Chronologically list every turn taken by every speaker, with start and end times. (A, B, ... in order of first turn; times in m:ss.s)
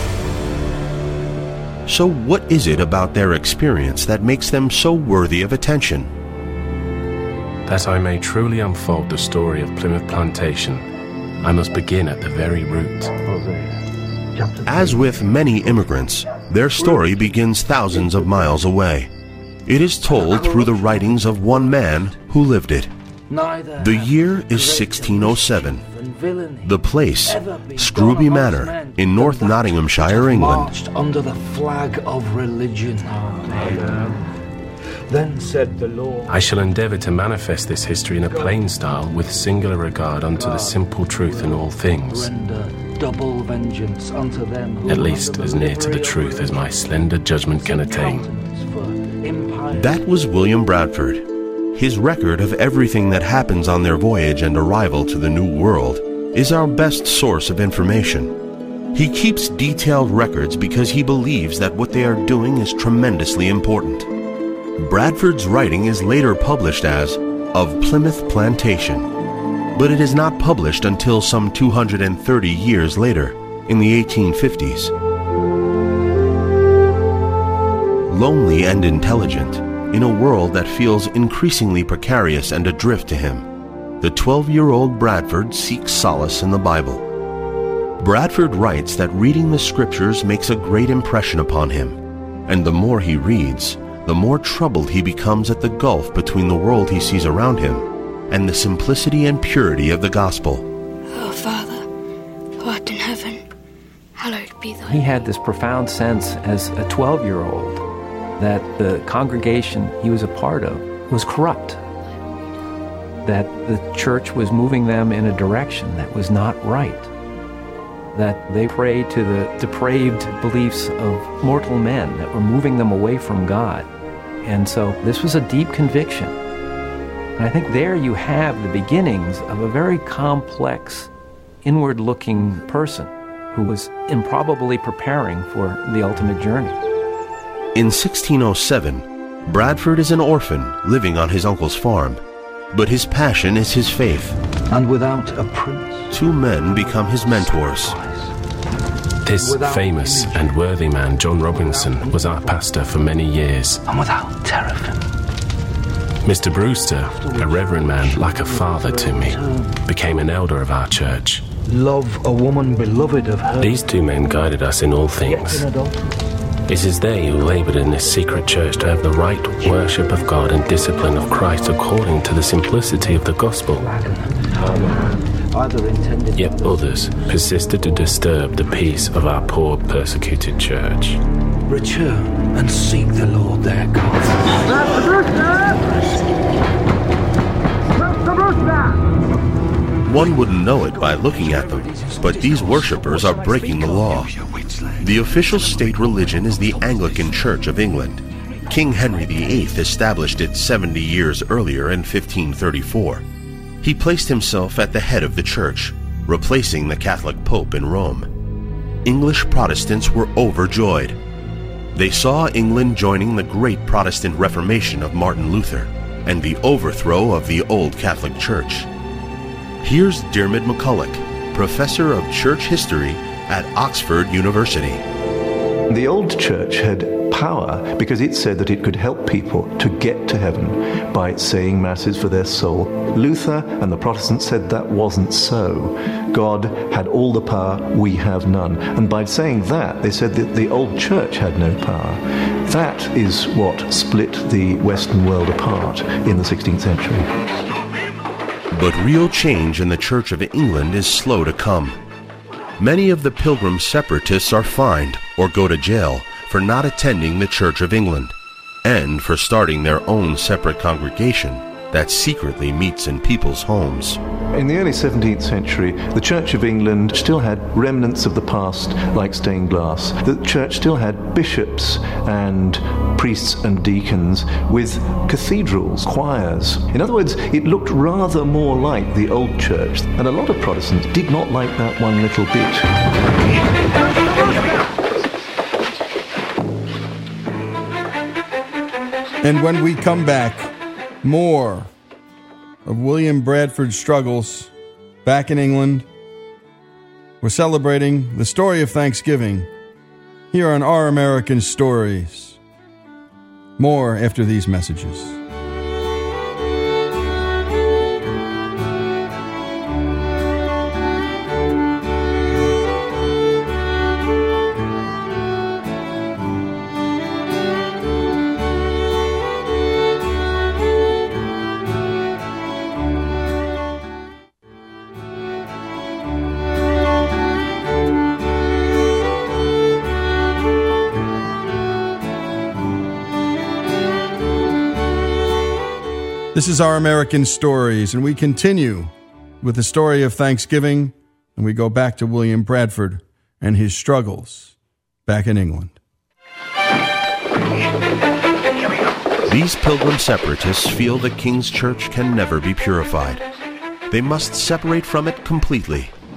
0:01.8-0:06.1 A
0:07.7-0:10.8 B
0:11.4-0:13.1 B
0:13.2-0:13.8 C
0:14.3-0:15.9 C
0:14.6-0:19.1 A
0:16.7-0:18.6 C
0:19.7-0:22.9 A
0:20.1-0:21.8 C
0:23.3-0:34.2 C
0:23.8-0:25.9 A
0:26.6-0:30.7 A
0:35.1-0:36.5 C
0:36.3-0:42.3 B
0:38.3-0:38.6 C
0:40.3-0:46.7 C
0:44.9-0:48.2 B
0:47.6-0:50.0 C
0:49.7-0:58.4 A
0:58.9-1:04.1 A
1:04.8-1:09.1 A
1:09.7-1:14.9 A
1:18.1-1:23.5 A
1:24.0-1:27.0 A
1:28.0-1:40.6 A
1:41.1-1:41.8 D
1:42.6-1:43.4 D
1:44.2-1:45.0 D
1:44.9-1:47.8 E
1:48.4-1:51.8 E
1:53.2-1:57.1 E
1:58.1-2:03.9 E
2:04.4-2:06.4 E
2:07.4-2:11.1 E
2:11.6-2:16.8 E
2:17.7-2:24.4 A
2:24.7-2:26.1 C
2:26.1-2:28.0 A
2:27.4-2:28.3 C
2:29.2-2:33.8 B
2:29.3-2:30.6 C
2:31.4-2:32.6 C
2:33.9-2:35.0 C
2:36.2-2:41.4 B
2:37.0-2:39.8 C
2:41.6-2:43.8 C
2:43.6-2:45.7 B
2:45.2-2:46.1 C
2:46.7-2:53.9 B
2:48.0-2:48.8 C
2:49.4-2:51.8 C
2:53.8-2:55.0 C
2:55.5-2:57.2 C
2:56.3-3:01.2 B
3:01.7-3:04.8 C
3:10.0-3:14.3 A
3:11.9-3:14.8 C
3:15.0-3:23.2 A
3:23.8-3:28.3 A
3:29.0-3:31.2 A
3:31.9-3:38.9 A
3:39.8-3:45.0 A
3:45.9-4:07.4 F
4:08.7-4:12.0 A
4:12.8-4:24.2 A
4:24.5-4:42.9 F
4:49.4-4:51.9 G
4:52.8-4:54.7 G
4:55.2-4:56.1 G
4:57.4-4:59.7 G
5:00.5-5:02.6 G
5:03.8-5:05.4 G
5:36.5-5:44.7 G
5:45.2-5:46.0 G
5:49.5-5:53.4 A
5:54.1-5:56.1 A